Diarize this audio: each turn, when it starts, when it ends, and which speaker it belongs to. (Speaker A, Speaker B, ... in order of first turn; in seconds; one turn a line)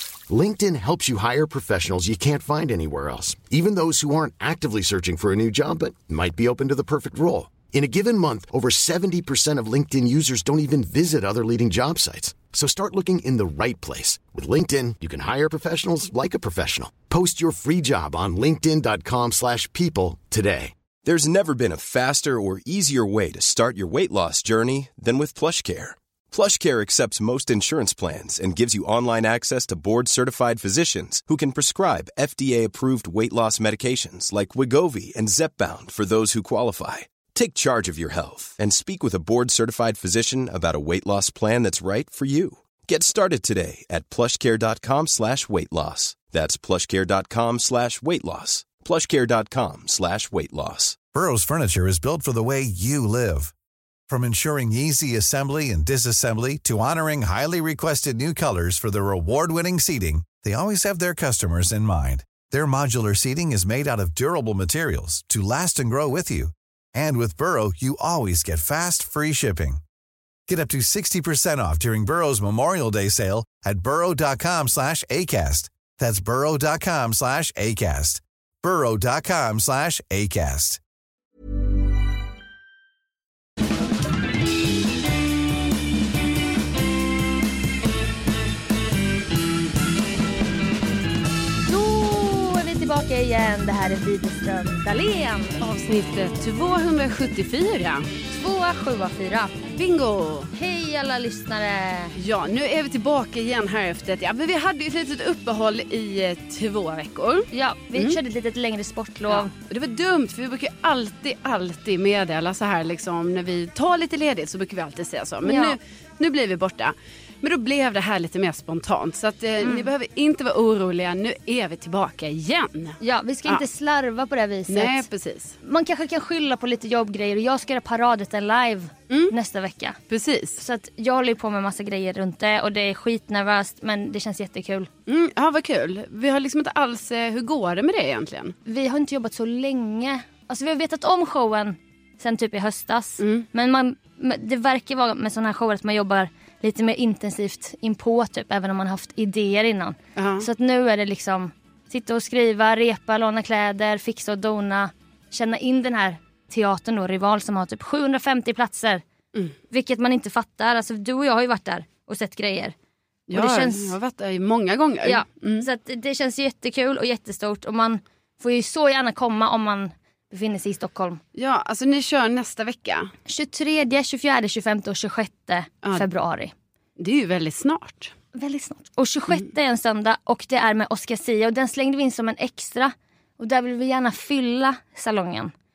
Speaker A: 0.3-20.7
Speaker B: 21.0-51.0
Speaker C: 51.1-53.5
Speaker C: 54.1-69.8
Speaker C: 70.5-80.8
Speaker D: 91.7-95.6
Speaker E: 95.6-98.1
Speaker D: 98.3-99.6
Speaker E: 99.7-100.5
Speaker D: 100.5-102.1
Speaker E: 102.2-108.2
Speaker D: 107.5-109.5
Speaker E: 109.3-123.6
Speaker D: 115.4-115.8
Speaker D: 119.6-119.9
Speaker D: 123.0-125.1
Speaker E: 124.7-125.5
Speaker D: 125.6-130.0
Speaker E: 130.1-130.6
Speaker D: 130.6-134.9
Speaker E: 135.1-138.5
Speaker D: 138.6-159.0
Speaker E: 143.2-143.4
Speaker E: 150.2-150.5
Speaker D: 159.7-162.7
Speaker E: 163.3-165.7
Speaker D: 163.3-163.9
Speaker D: 165.0-171.2
Speaker E: 171.3-173.1
Speaker D: 173.3-176.5
Speaker E: 177.0-178.1
Speaker D: 178.3-185.5